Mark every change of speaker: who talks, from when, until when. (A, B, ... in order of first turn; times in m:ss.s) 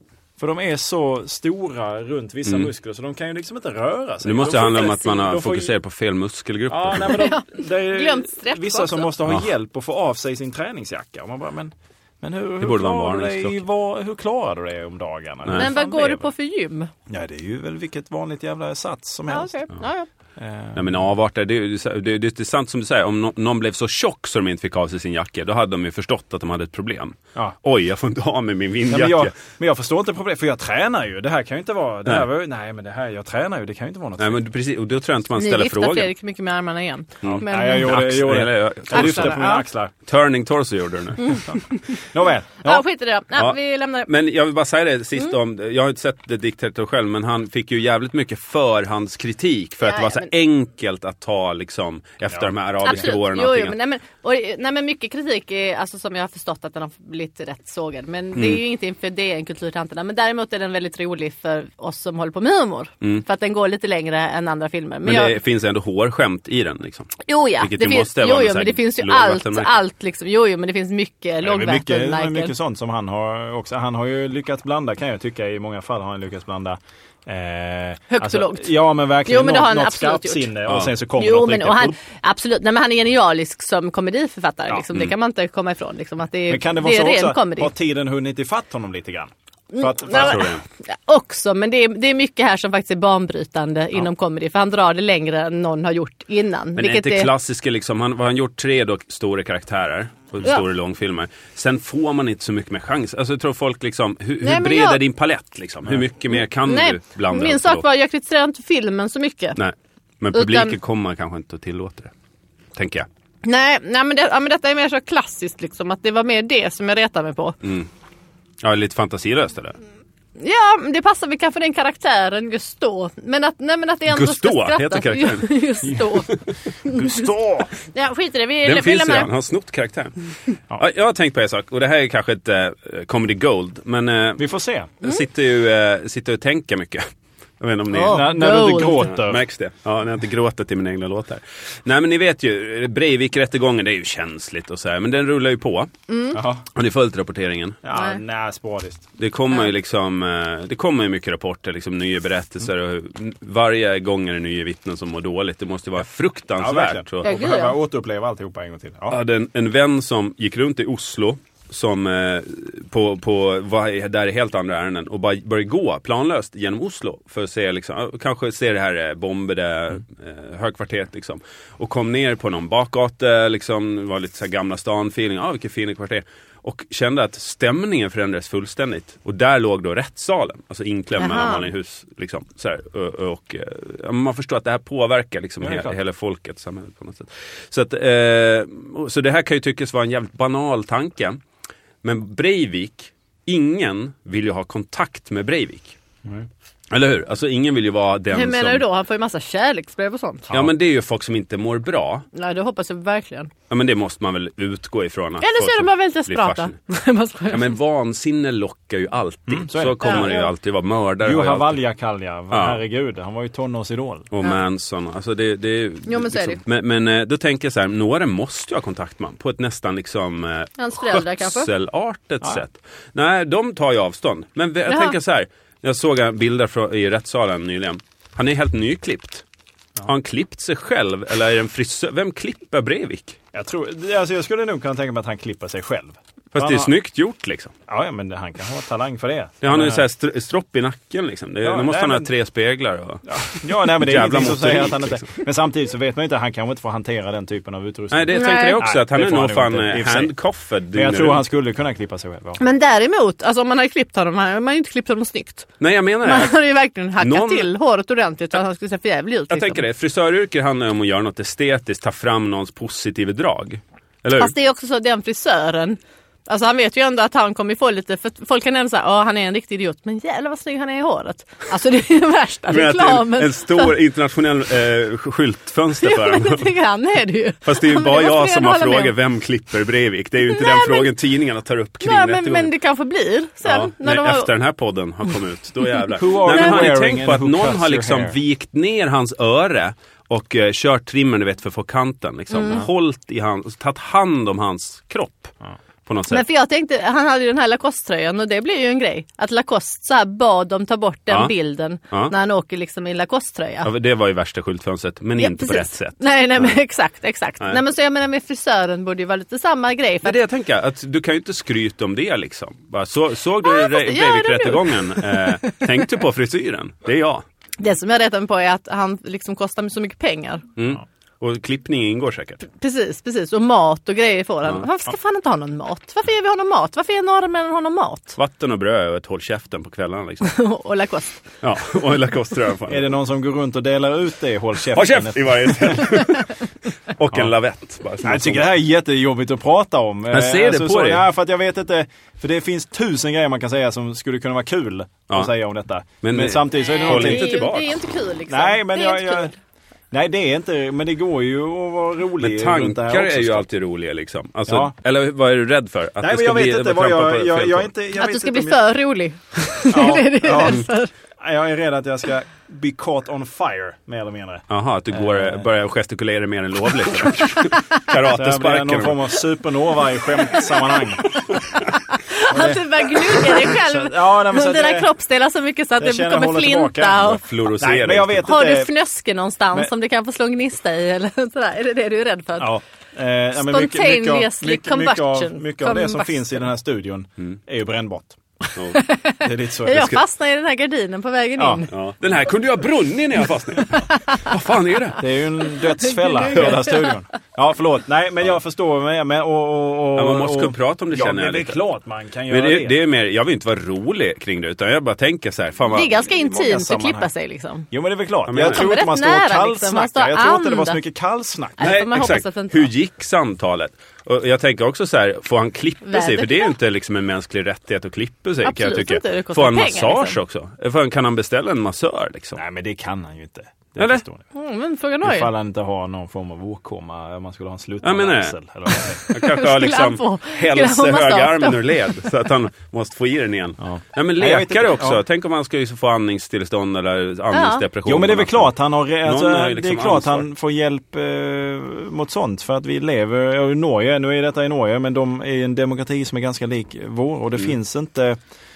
0:00.4-0:05.7 A
0:04.2-0:07.2 B
0:06.7-0:16.3 A
0:07.0-0:09.1 C
0:12.6-0:13.6 B
0:15.4-0:15.7 B
0:15.5-0:16.9 C
0:17.1-0:19.6 A
0:19.3-0:20.1 C
0:20.4-0:21.0 A
0:20.7-0:29.3 B
0:28.9-0:34.4 A
0:34.2-0:36.1 B
0:35.4-0:38.0 C
0:37.2-0:39.5 B
0:37.2-0:39.9 A
0:38.9-0:39.6 C
0:40.0-0:41.4 B
0:41.2-0:42.0 C
0:41.5-0:42.8 A
0:42.6-0:44.1 C
0:43.3-0:53.8 B
0:49.8-0:50.3 C
0:52.8-1:05.4 C
0:58.3-0:58.6 B
1:05.0-1:09.8 B
1:07.2-1:12.5 C
1:11.4-1:22.0 A
1:18.1-1:18.7 C
1:19.2-1:20.5 C
1:21.2-1:27.7 C
1:26.5-1:30.5 A
1:29.7-1:37.3 C
1:30.1-1:30.6 B
1:36.8-1:47.8 B
1:44.4-1:45.0 C
1:46.6-1:49.6 C
1:49.6-1:52.1 B
1:50.3-1:50.8 C
1:52.8-1:53.1 B
1:53.4-1:57.6 C
1:57.6-1:57.9 B
1:58.6-1:59.8 B
2:00.4-2:09.3 C
2:04.1-2:07.7 B
2:08.6-2:14.4 B
2:14.4-2:14.9 A
2:15.0-2:17.0 B
2:17.6-2:25.9 B
2:17.9-2:19.1 C
2:18.1-2:19.4 A
2:26.1-2:26.4 C
2:26.3-2:26.6 A
2:26.7-2:27.8 B
2:27.8-2:29.1 A
2:27.9-2:28.2 C
2:29.2-2:37.3 B
2:36.6-2:39.2 A
2:37.2-2:37.8 C
2:39.1-3:11.4 B
3:01.2-3:01.6 C
3:05.6-3:06.0 A
3:12.0-3:16.0 B
3:16.9-3:18.8 B
3:18.3-3:20.5 C
3:20.5-3:22.3 B
3:22.3-3:23.5 C
3:23.7-3:26.7 B
3:25.4-3:27.7 C
3:27.5-3:31.8 B
3:29.5-3:30.5 A
3:30.0-3:30.5 C
3:31.2-3:34.3 A
3:32.5-3:32.8 B
3:34.3-3:49.4 B
3:36.0-3:36.6 C
3:40.8-3:41.7 C
3:44.9-3:45.1 C
3:50.0-3:53.4 B
3:53.5-3:56.9 A
3:56.5-3:57.7 B
3:57.9-4:00.0 A
3:59.6-4:05.3 B
4:01.6-4:02.3 A
4:03.3-4:10.3 A
4:08.1-4:11.4 B
4:08.3-4:08.8 C
4:10.9-4:12.6 A
4:12.6-4:15.7 C
4:15.8-4:16.6 B
4:16.2-4:19.8 C
4:17.2-4:17.7 B
4:19.5-4:24.5 B
4:24.4-4:33.9 C
4:32.7-4:36.7 B
4:36.0-4:39.1 C
4:37.6-4:42.7 B
4:40.4-4:41.1 C
4:42.0-4:44.5 C
4:43.6-4:55.5 B
4:46.2-4:48.4 A
4:52.5-4:52.9 C
4:56.0-4:56.4 B
4:56.3-5:03.9 C
5:03.8-5:06.8 B
5:05.4-5:10.4 C
5:10.2-5:17.4 B
5:13.6-5:15.8 C
5:17.8-5:20.6 C
5:20.8-5:22.6 B
5:22.6-5:28.4 C
5:28.4-5:30.5 B
5:30.4-5:31.4 C
5:31.6-5:33.1 B
5:32.9-5:36.1 A
5:34.9-5:38.7 B
5:38.2-5:47.5 A
5:40.3-5:41.2 B
5:46.2-5:48.0 B
5:46.8-5:49.5 C
5:48.5-5:49.5 A
5:50.1-5:53.7 A
5:52.4-5:57.9 B
5:54.7-5:54.9 A
5:56.2-5:58.8 A
5:58.2-6:01.1 C
5:59.9-6:00.8 A
6:01.4-6:05.7 A
6:04.7-6:09.4 B
6:08.2-6:11.4 A
6:10.5-6:17.4 C
6:12.5-6:15.1 A
6:16.0-6:17.3 A
6:17.2-6:18.5 B
6:17.8-6:18.9 A
6:18.4-6:22.7 C
6:22.6-6:28.4 A
6:23.5-6:26.4 C
6:28.9-6:31.9 C
6:29.4-6:30.2 A
6:31.6-6:31.8 A
6:31.9-6:35.3 B
6:33.9-6:34.4 C
6:35.2-6:43.0 A
6:35.9-6:37.1 C
6:36.5-6:36.8 B
6:40.1-6:41.8 B
6:42.5-6:46.2 B
6:45.9-6:47.9 C
6:46.2-6:47.3 A
6:47.9-6:51.9 A
6:48.5-6:48.9 B
6:48.6-6:51.0 C
6:51.8-6:52.9 C
6:51.8-7:02.6 B
6:56.0-6:56.7 C
6:58.6-7:00.4 C
7:02.5-7:04.4 A
7:04.0-7:04.2 B
7:04.5-7:05.5 C
7:05.2-7:09.2 A
7:08.0-7:08.6 B
7:09.1-7:18.7 B
7:09.3-7:12.1 C
7:13.8-7:15.2 A
7:17.5-7:17.8 C
7:18.0-7:28.4 A
7:19.2-7:20.4 B